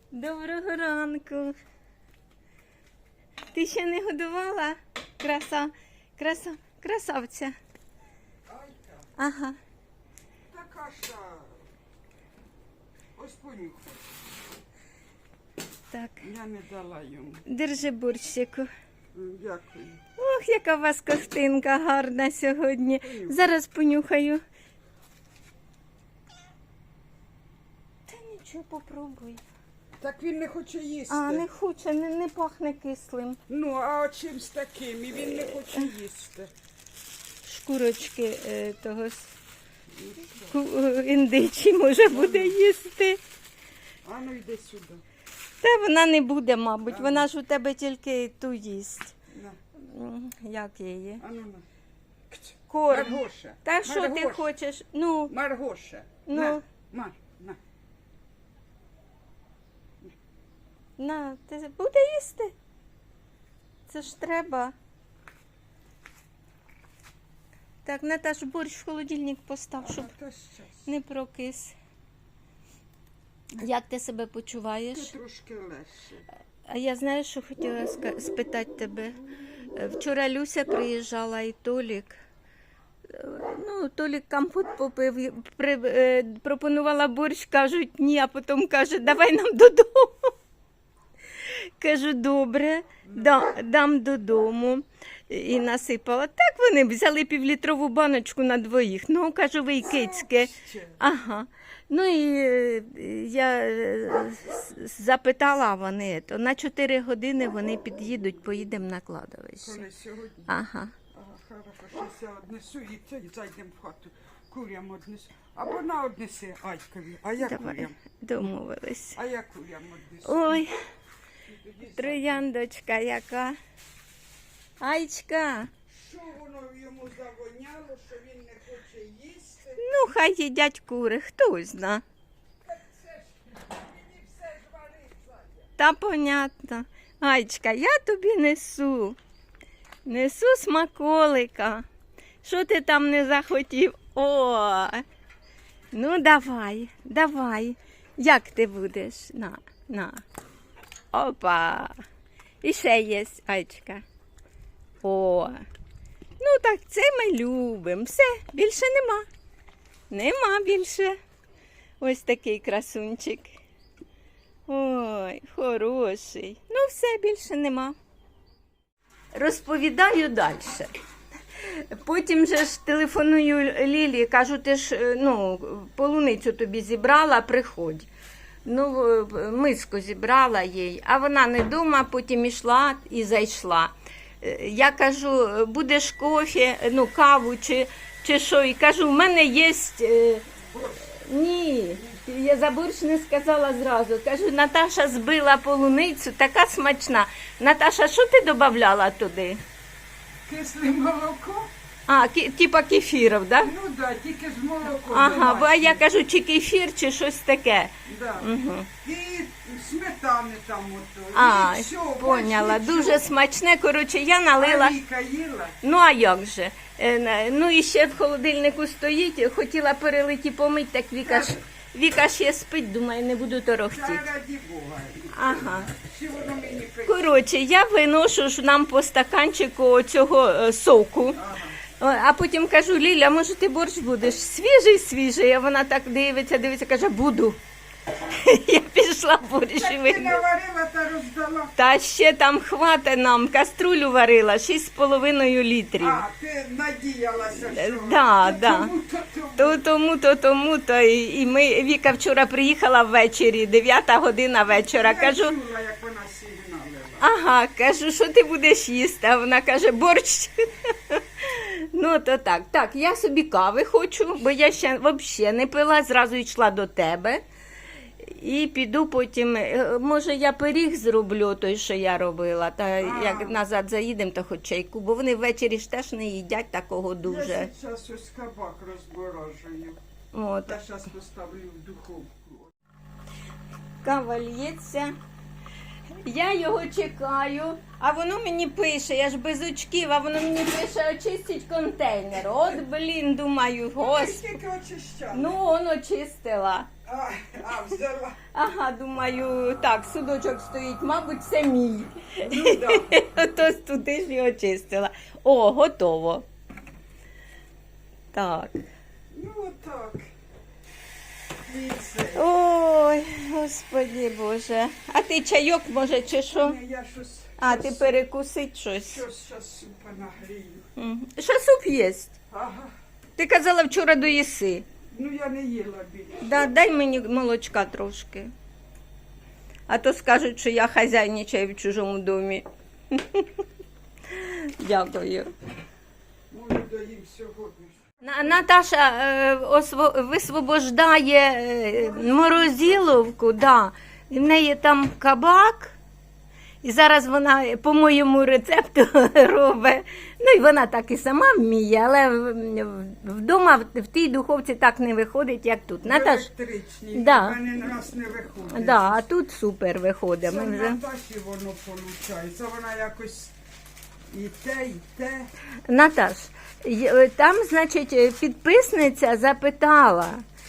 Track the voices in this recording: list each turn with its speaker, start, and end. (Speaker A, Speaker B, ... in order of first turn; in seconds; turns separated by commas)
Speaker A: 0.1-1.6, Speaker A: 3.5-7.5, Speaker B: 8.5-9.1, Speaker A: 9.2-9.6, Speaker B: 10.5-11.6, Speaker B: 13.2-14.0, Speaker A: 15.9-16.2, Speaker B: 16.2-17.4, Speaker A: 17.4-18.7, Speaker B: 19.1-20.0, Speaker A: 20.2-24.4, Speaker B: 23.0-23.4, Speaker A: 28.1-29.4, Speaker B: 30.0-31.5, Speaker A: 31.1-33.4, Speaker B: 33.5-36.5, Speaker A: 35.2-35.9, Speaker A: 37.5-39.3, Speaker B: 40.0-40.5, Speaker A: 40.5-43.2, Speaker B: 42.1-42.6, Speaker B: 44.0-45.0, Speaker A: 45.6-49.1, Speaker B: 46.9-47.3, Speaker A: 49.8-51.2, Speaker B: 51.2-51.6, Speaker B: 52.3-54.5, Speaker A: 52.7-55.3, Speaker B: 55.3-57.6, Speaker A: 56.2-56.6, Speaker A: 61.0-62.5, Speaker A: 63.9-64.7, Speaker A: 67.8-70.1, Speaker B: 69.8-70.9, Speaker A: 70.8-71.7, Speaker A: 73.5-75.1, Speaker B: 74.9-76.2, Speaker A: 76.7-79.2, Speaker A: 79.7-82.2, Speaker A: 83.1-90.3, Speaker A: 91.5-109.8, Speaker B: 93.0-93.4, Speaker B: 99.8-101.0, Speaker B: 109.6-110.5, Speaker A: 110.5-110.9, Speaker B: 111.1-118.0, Speaker A: 117.4-119.2, Speaker B: 119.1-120.6, Speaker A: 120.2-120.7, Speaker B: 121.5-122.5, Speaker A: 121.9-123.6, Speaker A: 124.8-125.7, Speaker B: 125.9-129.8, Speaker A: 129.8-132.0, Speaker B: 132.6-135.7, Speaker A: 135.8-139.2, Speaker A: 140.1-141.8, Speaker A: 142.4-145.0, Speaker A: 145.9-150.2, Speaker A: 151.1-151.9, Speaker A: 152.6-154.0, Speaker A: 155.0-155.6, Speaker A: 156.4-159.2, Speaker A: 160.1-161.2, Speaker A: 162.0-163.5, Speaker A: 164.7-167.9, Speaker A: 169.3-170.9, Speaker A: 171.6-178.1, Speaker A: 178.6-190.4, Speaker B: 190.7-191.1, Speaker A: 191.1-199.6, Speaker B: 200.5-201.7, Speaker A: 202.1-203.7, Speaker B: 203.6-206.0, Speaker A: 205.1-208.9, Speaker B: 208.1-208.5, Speaker B: 209.0-213.3, Speaker A: 211.3-214.9, Speaker B: 214.6-215.8, Speaker A: 215.8-224.2, Speaker B: 221.2-221.6, Speaker B: 223.9-227.3, Speaker A: 225.3-225.9, Speaker A: 227.1-231.4, Speaker B: 231.3-231.8, Speaker A: 232.0-237.6, Speaker A: 238.3-240.4, Speaker B: 239.8-241.7, Speaker A: 241.8-246.2, Speaker B: 246.0-249.8, Speaker A: 247.7-248.9, Speaker A: 249.6-255.5, Speaker B: 254.7-257.2, Speaker A: 257.2-267.4, Speaker A: 268.2-277.7, Speaker B: 273.0-273.6, Speaker B: 277.2-280.0, Speaker A: 280.3-280.8, Speaker B: 280.6-282.7, Speaker A: 284.0-285.1, Speaker A: 286.2-294.4, Speaker B: 294.0-295.6, Speaker A: 295.3-296.9, Speaker B: 297.0-298.4, Speaker A: 298.5-306.4, Speaker B: 302.4-303.4, Speaker A: 308.3-308.8, Speaker B: 309.3-310.3, Speaker B: 311.6-312.4, Speaker A: 312.3-316.8, Speaker B: 316.5-318.2, Speaker A: 317.6-319.2, Speaker B: 319.0-320.9, Speaker A: 321.0-322.3, Speaker B: 322.5-322.9, Speaker A: 323.4-324.9, Speaker B: 325.1-326.7, Speaker A: 326.4-328.5, Speaker A: 329.9-333.5, Speaker A: 334.3-335.5, Speaker B: 336.5-338.0, Speaker A: 338.2-346.0, Speaker B: 341.9-343.1, Speaker A: 346.8-356.5, Speaker B: 356.0-359.2, Speaker A: 357.1-357.6, Speaker A: 358.7-361.0, Speaker B: 360.4-363.5, Speaker B: 364.3-365.5, Speaker A: 365.9-370.4